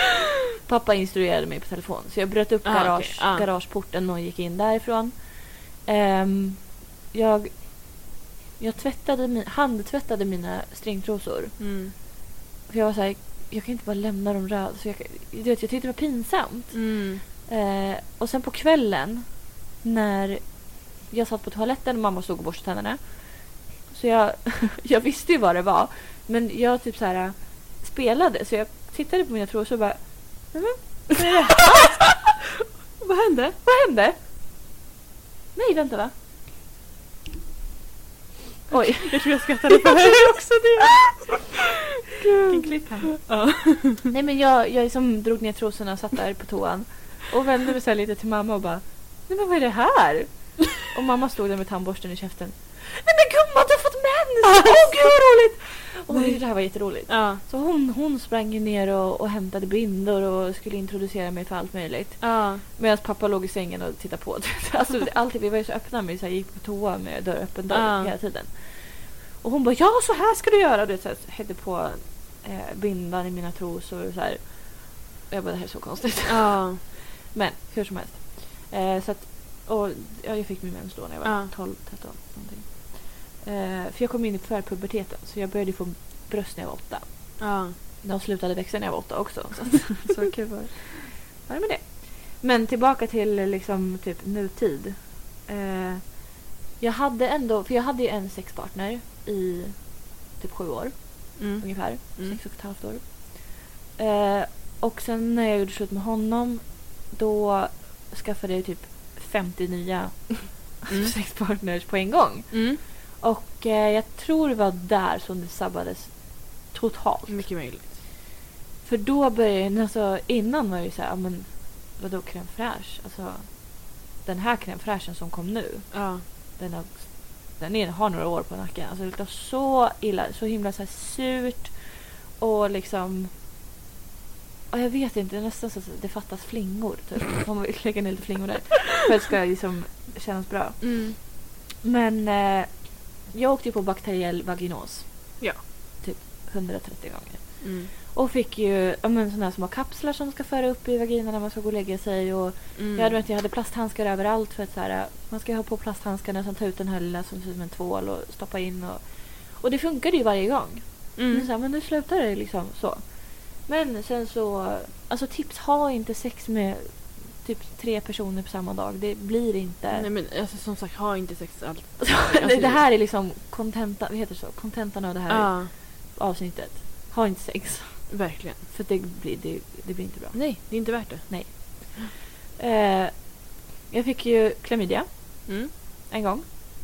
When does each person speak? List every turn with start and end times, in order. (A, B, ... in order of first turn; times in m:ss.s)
0:00.6-0:08.0 A
0:02.6-0:03.5 B
0:08.6-0:11.6 A
0:11.6-0:11.9 B
0:12.7-0:32.3 A
0:16.7-0:17.2 B
0:31.2-0:31.9 B
0:33.0-0:33.6 B
0:33.6-0:34.2 A
0:35.5-0:36.1 A
0:38.7-0:41.1 A
0:39.0-0:41.6 B
0:42.2-0:44.1 B
0:42.4-0:43.2 A
0:44.1-1:27.5 A
0:54.4-0:55.0 B
0:56.1-0:56.4 B
0:57.1-0:57.4 B
1:02.2-1:02.6 B
1:07.7-1:08.1 B
1:16.3-1:16.8 B
1:21.2-1:21.5 B
1:27.4-1:27.8 B
1:28.0-1:57.5 A
1:41.4-1:42.4 B
1:50.9-1:51.1 B
1:52.5-1:52.8 B
1:57.3-1:58.0 B
1:58.8-2:13.3 A
2:05.9-2:06.2 B
2:14.7-2:25.5 A
2:20.8-2:21.2 B
2:26.0-2:50.1 A
2:27.6-2:27.9 B
2:32.8-2:33.2 B
2:41.2-2:41.5 B
2:49.9-2:52.8 B
2:52.0-3:06.4 A
2:55.3-2:55.7 B
2:58.1-2:58.6 B
3:00.3-3:02.1 B